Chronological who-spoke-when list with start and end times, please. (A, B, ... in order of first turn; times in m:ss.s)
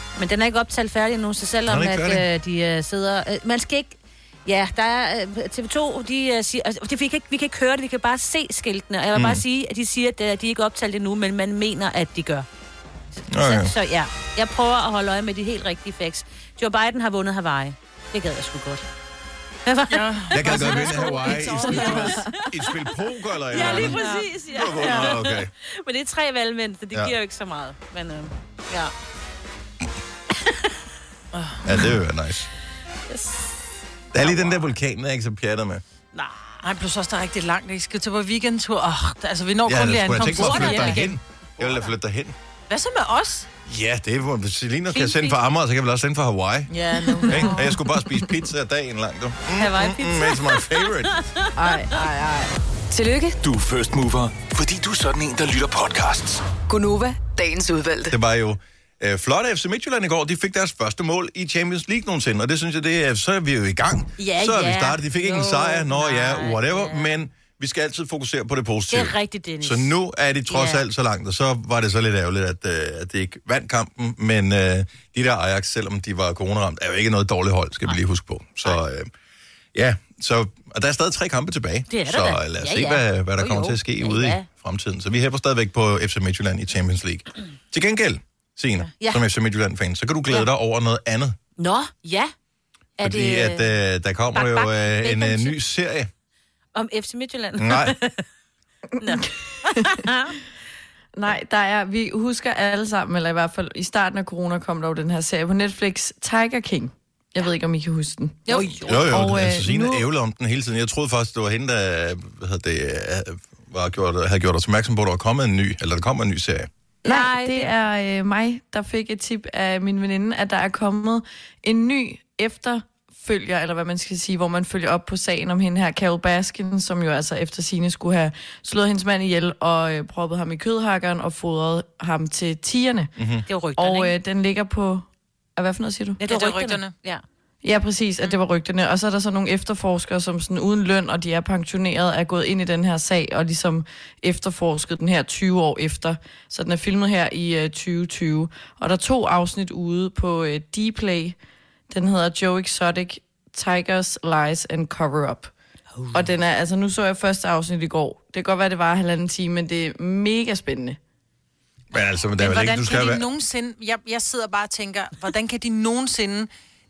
0:00.2-0:12.4 A
0:01.6-0:02.3 B
0:09.1-0:09.4 B
0:13.3-0:13.7 B
0:13.4-0:18.8 A
0:19.6-0:22.4 A
0:19.9-0:22.2 C
0:20.3-0:25.5 B
0:23.5-0:28.9 A
0:23.5-0:25.2 C
0:30.4-0:30.7 A
0:31.3-0:31.8 C
0:31.6-0:32.5 B
0:33.1-0:33.5 A
0:34.1-0:35.8 B
0:34.2-0:34.7 A
0:36.1-0:36.6 A
0:36.6-0:41.1 C
0:39.6-0:42.4 B
0:40.2-0:41.7 A
0:42.7-0:43.5 C
0:43.6-0:46.7 B
0:44.9-0:45.4 A
0:46.7-0:47.7 C
0:47.3-0:51.2 B
0:47.3-0:47.8 A
0:49.6-0:52.0 A
0:51.5-0:52.5 D
0:52.9-0:53.4 E
0:53.4-0:56.4 F
0:56.7-0:58.2 E
0:58.1-1:19.1 B
1:04.2-1:07.2 A
1:08.9-1:09.9 A
1:10.5-1:10.8 A
1:19.7-1:31.4 B
1:21.9-1:24.4 A
1:28.9-1:29.2 A
1:31.6-1:32.3 A
1:33.0-1:33.7 A
1:33.0-1:36.1 B
1:34.3-1:35.5 A
1:36.7-1:38.2 A
1:37.6-1:37.9 B
1:39.0-1:40.1 D
1:39.0-1:40.3 A
1:41.2-1:50.0 D
1:48.5-1:49.1 A
1:48.8-1:56.7 B
1:57.0-2:13.1 D
1:57.0-1:57.7 A
2:13.2-2:13.4 B
2:13.5-2:14.1 A
2:13.8-2:16.2 D
2:16.2-2:17.2 A
2:16.3-2:16.9 C
2:17.6-2:31.4 D
2:31.9-2:35.5 D
2:35.9-2:36.2 A
2:36.1-2:41.0 D
2:41.9-2:43.2 B
2:42.4-2:46.5 C